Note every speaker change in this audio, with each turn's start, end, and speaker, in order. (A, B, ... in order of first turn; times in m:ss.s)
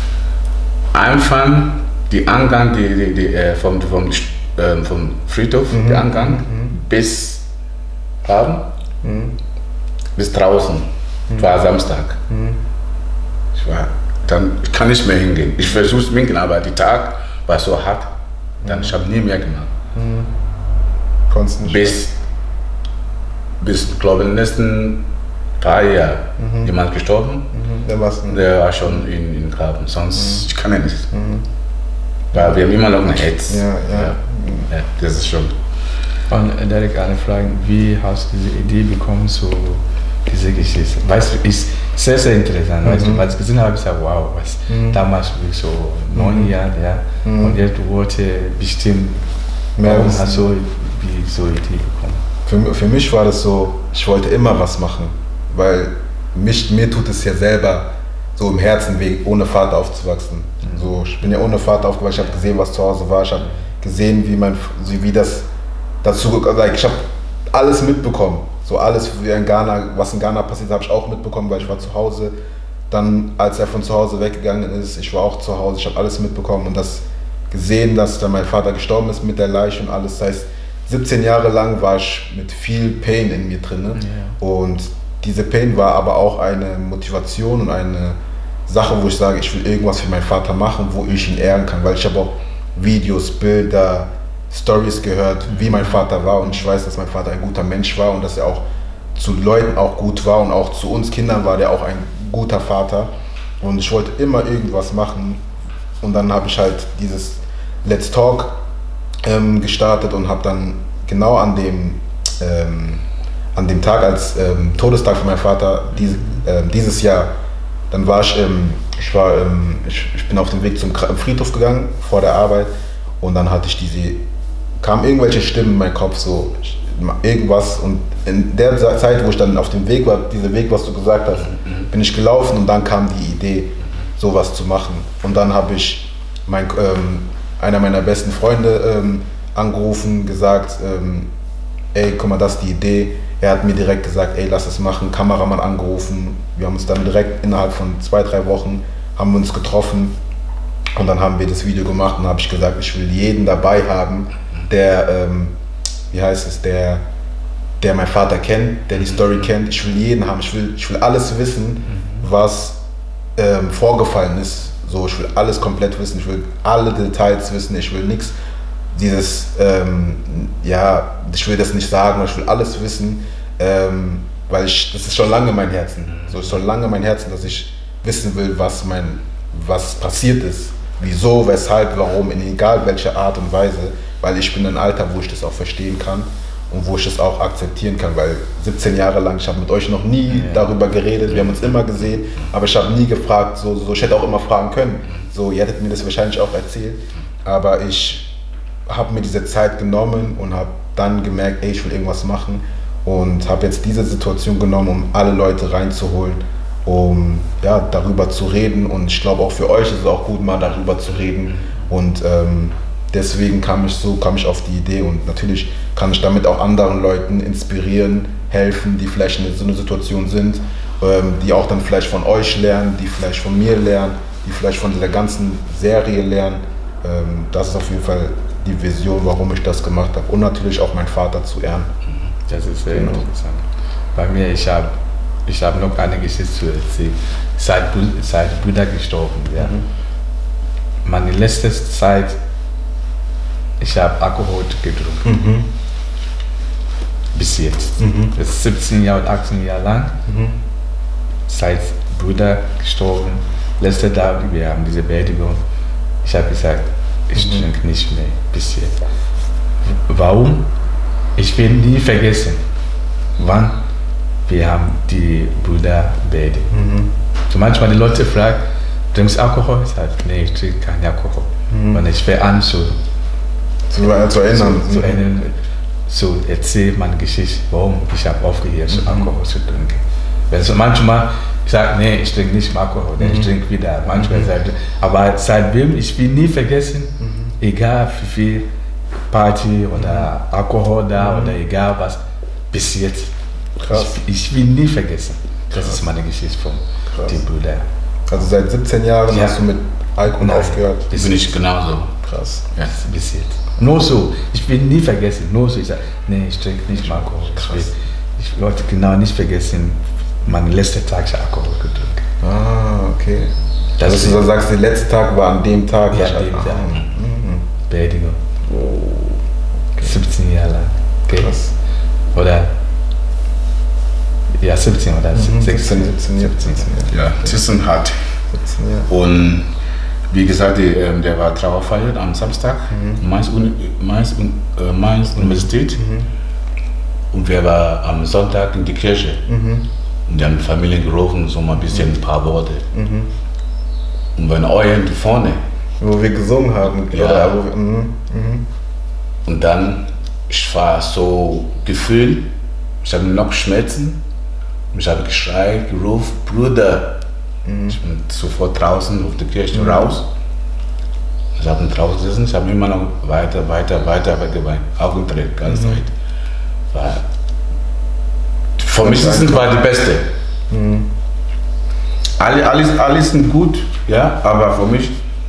0:00.9-0:07.4 A
0:05.7-0:06.8 B
0:08.2-0:08.7 A
0:09.0-0:09.4 B
0:10.2-0:12.2 A
0:11.3-0:11.6 B
0:12.3-0:12.6 B
0:13.6-0:18.1 A
0:18.6-0:19.0 B
0:18.6-0:19.7 A
0:20.0-0:20.3 B
0:21.3-0:22.0 B
0:21.6-0:22.2 A
0:23.6-0:25.0 A
0:25.6-0:27.5 A
0:26.4-0:26.7 B
0:27.5-0:28.5 B
0:28.3-0:31.1 A
0:30.1-0:30.5 B
0:31.1-0:31.4 B
0:32.3-0:32.6 B
0:32.3-0:34.2 A
0:33.5-0:34.7 B
0:34.7-0:35.6 A
0:36.3-0:49.2 C
0:42.8-0:43.2 B
0:44.7-0:45.0 B
0:46.2-0:46.5 B
0:47.2-0:47.6 B
0:49.8-0:50.5 B
0:49.8-0:52.2 C
0:52.5-1:05.5 B
1:00.6-1:00.9 C
1:06.0-1:12.3 B
1:12.9-1:28.2 B
1:24.0-1:24.4 C
1:28.7-1:38.6 B
1:35.5-1:36.0 C
1:39.2-1:45.4 B
1:46.0-1:48.6 B
1:49.2-1:53.0 B
1:53.6-1:57.3 B
1:57.9-2:04.2 B
2:04.8-2:21.3 B
2:11.4-2:11.9 A
2:21.9-2:30.2 B
2:31.0-2:35.5 B
2:36.1-2:37.0 B
2:37.8-2:42.8 B
2:38.9-2:39.4 A
2:41.9-2:42.2 A
2:43.4-2:48.4 B
2:48.9-3:18.3 B
3:10.3-3:10.7 C
3:18.9-3:51.9 B
3:31.5-3:31.8 A
3:52.5-3:53.6 C
3:52.9-3:53.2 B
3:54.2-3:55.0 C
3:55.5-3:59.8 C
3:59.6-3:59.8 B
4:01.0-4:02.4 C
4:03.8-4:05.3 C
4:05.2-4:05.7 B
4:07.3-4:10.2 C
4:08.0-4:08.3 B
4:10.3-4:10.6 B
4:11.5-4:15.6 C
4:16.2-4:19.0 C
4:17.3-4:17.7 B
4:20.0-4:20.7 C
4:21.4-4:22.6 C
4:23.4-4:23.8 C
4:24.5-4:26.7 C
4:26.7-4:27.1 B
4:27.5-4:33.0 C
4:31.7-4:32.0 B
4:33.9-4:35.2 B
4:34.5-4:35.5 C
4:36.1-4:48.7 C
4:38.9-4:39.3 B
4:43.2-4:43.5 B
4:44.1-4:44.5 B
4:47.2-4:47.5 B
4:49.3-4:53.3 C
4:50.0-4:50.3 B
4:51.2-4:51.6 B
4:53.8-4:54.2 B
4:53.9-4:57.9 C
4:55.7-4:56.0 B
4:57.1-4:57.4 B
4:58.3-5:01.0 B
4:59.3-4:59.6 C
5:00.3-5:01.5 C
5:01.1-5:02.1 A
5:02.2-5:02.6 B
5:02.9-5:12.2 C
5:07.0-5:07.9 B
5:12.4-5:17.6 B
5:14.0-5:14.4 C
5:16.1-5:17.0 C
5:17.9-5:18.4 C
5:18.7-5:19.4 B
5:20.0-5:21.6 C
5:21.3-5:21.7 B
5:22.3-5:22.7 C
5:24.6-5:26.9 C
5:25.3-5:27.5 B
5:27.1-5:28.3 A
5:28.5-5:29.1 B
5:29.1-5:29.7 A
5:30.3-5:36.0 A
5:32.9-5:33.2 B
5:35.3-5:36.3 B
5:37.3-5:39.4 A
5:39.5-5:39.9 B
5:40.3-5:42.9 A
5:42.9-5:43.3 B
5:44.4-5:45.6 A
5:46.0-5:48.6 B
5:47.1-5:47.6 A
5:49.4-5:52.5 A
5:53.0-5:54.2 A
5:54.9-5:57.2 A
5:57.7-5:58.0 B
5:57.9-6:00.3 A
5:59.7-6:00.2 B
6:01.6-6:06.1 A
6:05.6-6:06.0 B
6:06.9-6:07.2 A
6:08.8-6:10.3 A
6:09.0-6:09.8 B
6:10.7-6:11.1 B
6:12.4-6:15.2 A